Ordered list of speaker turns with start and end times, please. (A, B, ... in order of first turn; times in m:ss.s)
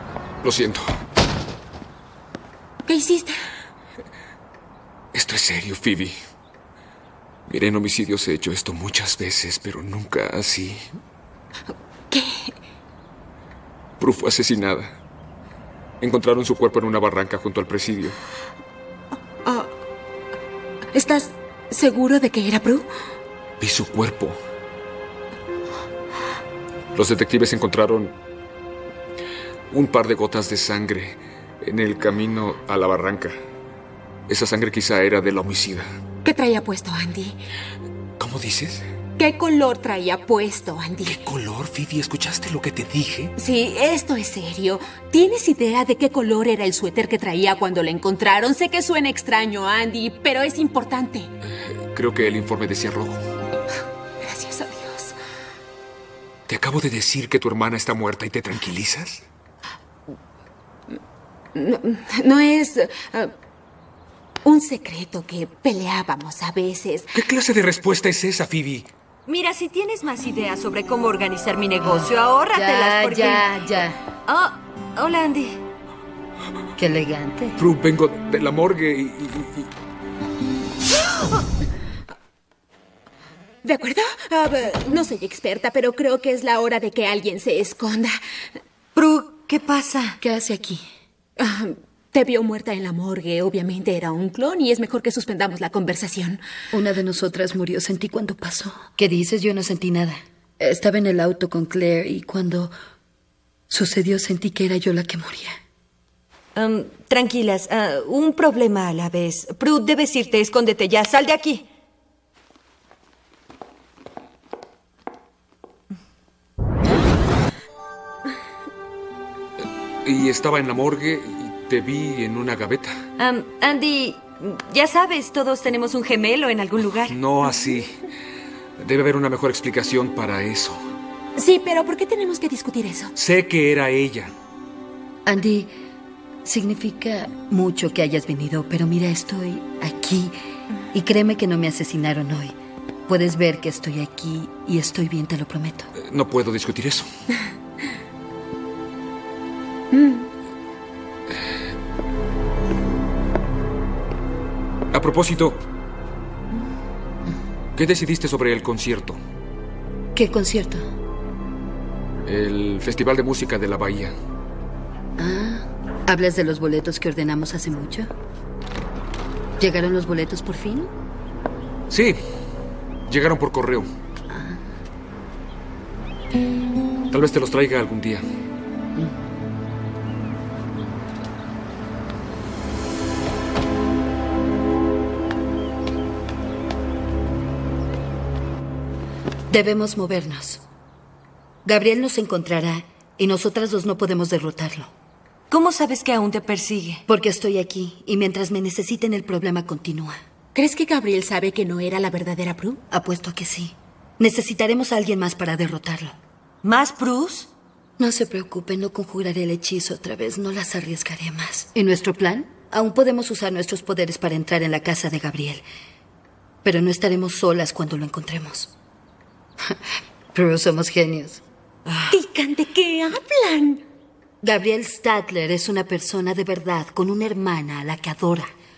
0:00.4-0:00.9 A
0:02.8-0:03.4 B
0:05.1-0:06.1 A
0:07.5-0:10.8 A
0:12.1-0:12.5 B
0:14.0-0:14.9 A
0:16.0-0:18.2 A
0:19.4-0:19.7 B
0:20.9-0:22.9 B
0:23.6-0:24.4 A
0:26.9-0:28.1 A
0:29.7-0:33.4 A
0:34.3-0:35.9 A
0:36.2-0:37.4 B
0:38.2-0:38.8 A
0:39.2-0:41.2 B
0:41.0-0:43.3 A
0:43.4-0:51.3 B
0:51.4-0:53.2 A
0:54.2-0:55.1 B
0:56.5-0:59.2 A
1:01.5-1:03.3 B
1:04.4-1:07.1 B
1:07.1-1:08.9 A
1:09.2-1:13.5 C
1:11.8-1:14.0 D
1:14.3-1:15.6 C
1:16.8-1:17.6 D
1:17.6-1:19.7 A
1:23.6-1:28.1 B
1:28.9-1:30.2 C
1:30.2-1:30.8 D
1:31.4-1:36.4 B
1:36.7-1:42.7 D
1:43.7-1:45.6 D
1:46.5-1:51.6 C
2:00.0-2:02.9 A
2:03.2-2:07.1 C
2:07.1-2:08.0 A
2:08.8-2:10.8 A
2:11.4-2:13.1 B
2:13.2-2:14.3 A
2:15.2-2:15.7 D
2:16.4-2:20.3 D
2:20.9-2:22.5 D
2:23.1-2:25.9 D
2:26.0-2:27.1 A
2:29.9-2:30.2 B
2:34.9-2:35.6 A
2:37.8-2:39.2 A
2:40.1-2:40.8 D
2:42.2-2:44.1 A
2:45.2-2:48.1 D
2:49.6-2:50.9 D
2:51.9-2:52.2 A
2:53.1-2:53.8 A
2:54.3-2:54.6 D
2:57.1-2:58.2 A
3:09.5-3:10.6 D
3:11.6-3:14.9 D
3:15.5-3:17.0 C
3:17.1-3:20.2 D
3:20.5-3:22.8 B
3:22.9-3:26.2 D
3:26.6-3:27.5 C
3:28.0-3:35.6 D
3:36.6-3:38.7 D
3:40.3-3:41.4 D
3:42.1-3:43.8 B
3:44.4-3:48.5 D